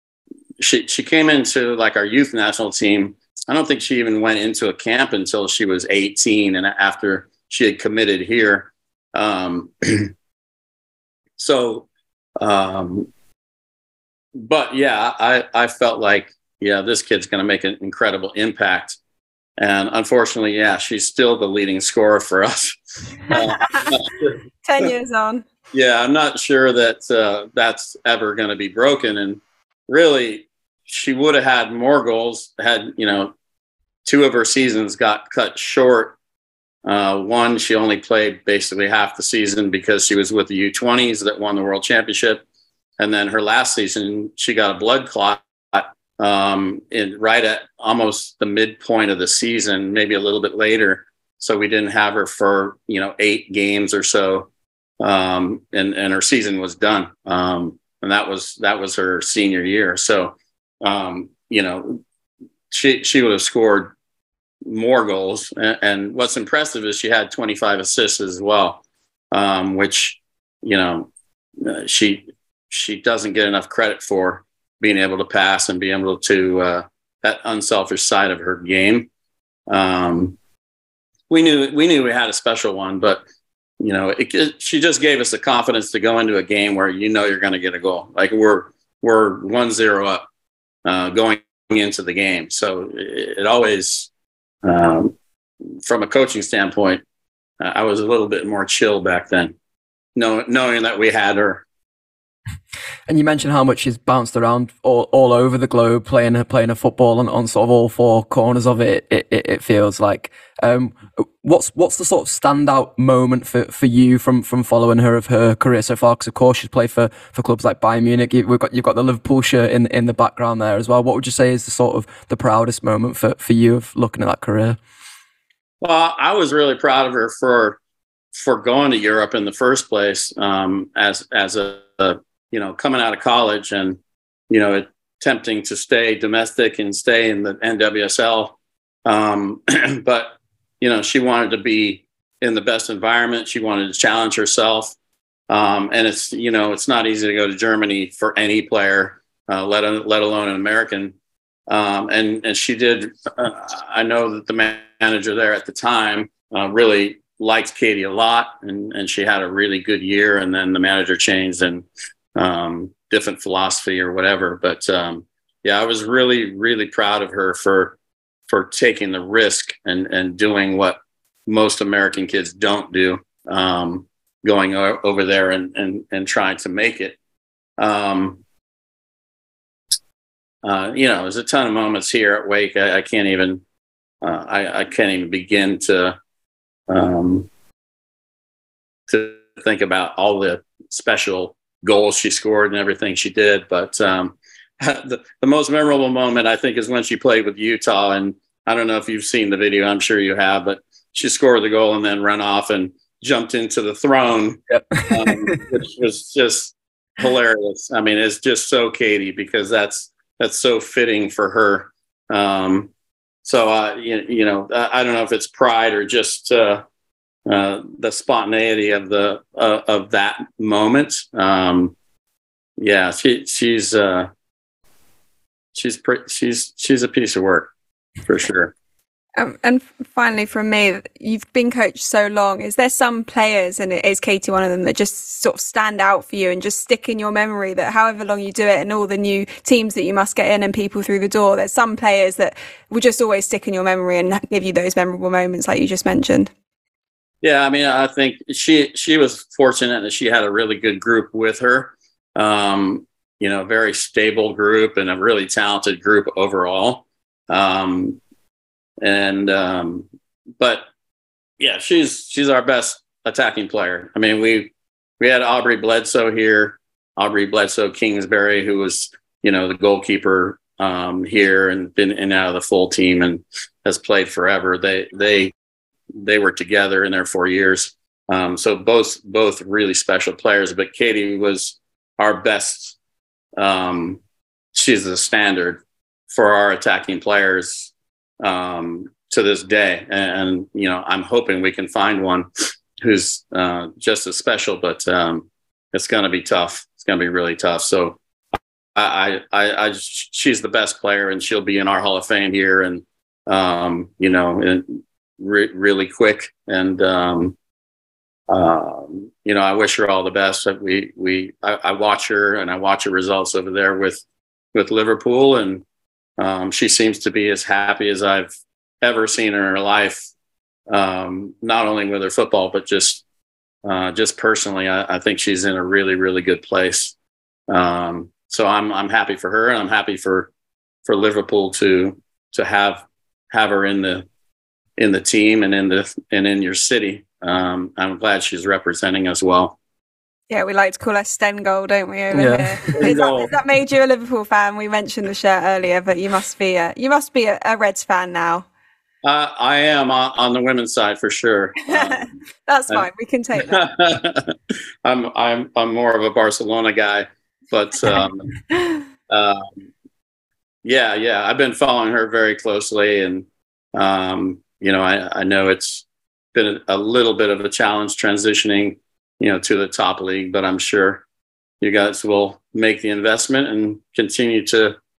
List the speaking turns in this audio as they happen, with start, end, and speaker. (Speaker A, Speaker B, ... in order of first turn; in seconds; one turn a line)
Speaker A: 0.6-10.1
Speaker A: 11.4-11.9
Speaker A: 12.4-13.1
Speaker A: 14.3-19.0
Speaker A: 19.6-24.9
Speaker B: 24.6-25.5
Speaker A: 25.7-33.3
Speaker A: 34.0-36.2
Speaker A: 36.9-42.4
Speaker A: 43.0-54.5
Speaker A: 55.0-62.0
Speaker A: 62.7-63.9
Speaker A: 64.7-79.1
Speaker A: 79.7-80.4
Speaker A: 81.3-83.2
Speaker A: 83.8-90.3
Speaker A: 90.8-94.1
Speaker A: 94.6-95.2
Speaker A: 95.8-97.0
Speaker A: 97.6-99.5
Speaker A: 100.2-101.6
Speaker C: 103.1-124.8
Speaker A: 125.8-127.8
Speaker A: 128.3-134.0
Speaker A: 134.5-145.0
Speaker A: 145.5-151.1
Speaker A: 151.7-168.0
Speaker A: 168.5-177.2
Speaker A: 177.8-178.4
Speaker A: 180.6-183.6
Speaker A: 184.2-186.2
Speaker A: 186.9-187.5
Speaker A: 189.1-212.9
Speaker C: 204.7-205.6
Speaker A: 213.4-216.8
Speaker A: 217.5-221.9
Speaker A: 222.8-224.3
Speaker A: 225.7-227.7
Speaker A: 228.2-228.7
Speaker B: 229.4-246.5
Speaker A: 247.4-258.2
Speaker A: 259.0-260.1
Speaker A: 260.6-260.9
Speaker A: 261.6-275.5
Speaker A: 276.1-283.0
Speaker A: 283.6-284.2
Speaker A: 284.7-298.2
Speaker A: 299.0-307.6
Speaker A: 308.5-315.8
Speaker A: 316.4-320.3
Speaker A: 320.9-323.2
Speaker A: 323.8-327.1
Speaker A: 327.7-330.5
Speaker A: 331.1-334.3
Speaker A: 335.0-339.8
Speaker B: 340.5-348.7
Speaker C: 342.3-343.0
Speaker A: 343.0-343.5
Speaker A: 349.2-352.3
Speaker B: 352.0-353.8
Speaker A: 352.9-358.6
Speaker A: 359.3-359.7
Speaker A: 360.8-371.2
Speaker A: 371.8-375.0